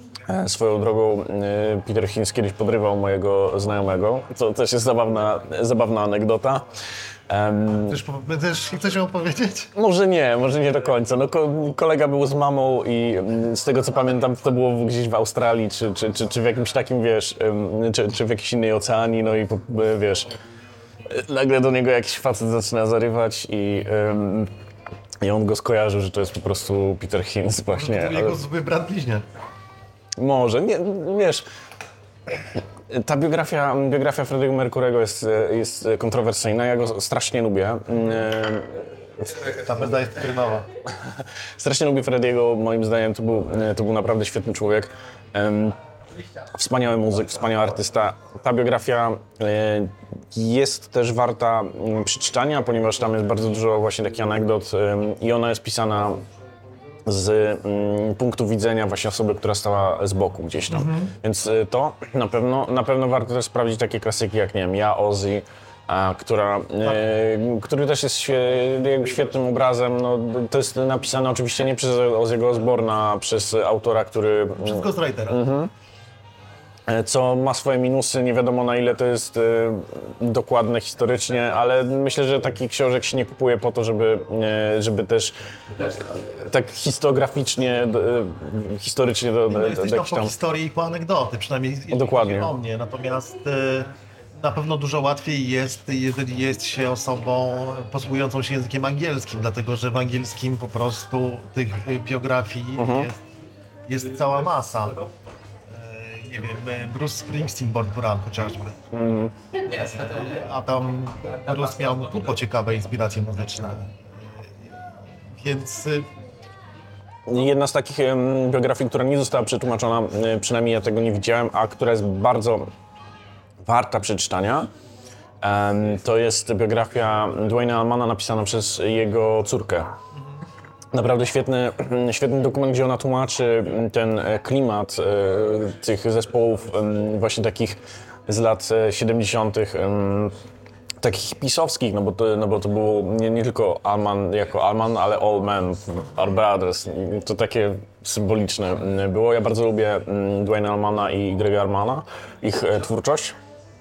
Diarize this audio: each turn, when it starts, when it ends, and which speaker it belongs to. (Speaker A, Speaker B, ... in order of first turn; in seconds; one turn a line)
Speaker A: 0.2-6.6
Speaker A: 7.3-8.0
Speaker B: 7.9-9.7
Speaker A: 9.7-20.3
Speaker A: 21.1-24.5
Speaker A: 25.2-28.4
Speaker B: 27.8-29.2
Speaker A: 30.2-31.4
Speaker A: 32.9-39.4
Speaker B: 39.5-40.7
Speaker A: 41.6-45.8
Speaker A: 46.5-56.2
Speaker A: 57.0-75.7
Speaker B: 60.7-61.1
Speaker B: 74.6-75.4
Speaker A: 76.9-90.3
Speaker B: 89.5-103.2
Speaker A: 91.9-92.5
Speaker A: 102.8-103.1
Speaker B: 103.9-105.0
Speaker B: 105.7-108.8
Speaker A: 108.9-109.3
Speaker B: 109.7-114.0
Speaker B: 115.3-116.1
Speaker A: 117.3-122.7
Speaker A: 123.6-124.7
Speaker A: 125.4-129.9
Speaker A: 130.9-140.3
Speaker A: 141.0-153.3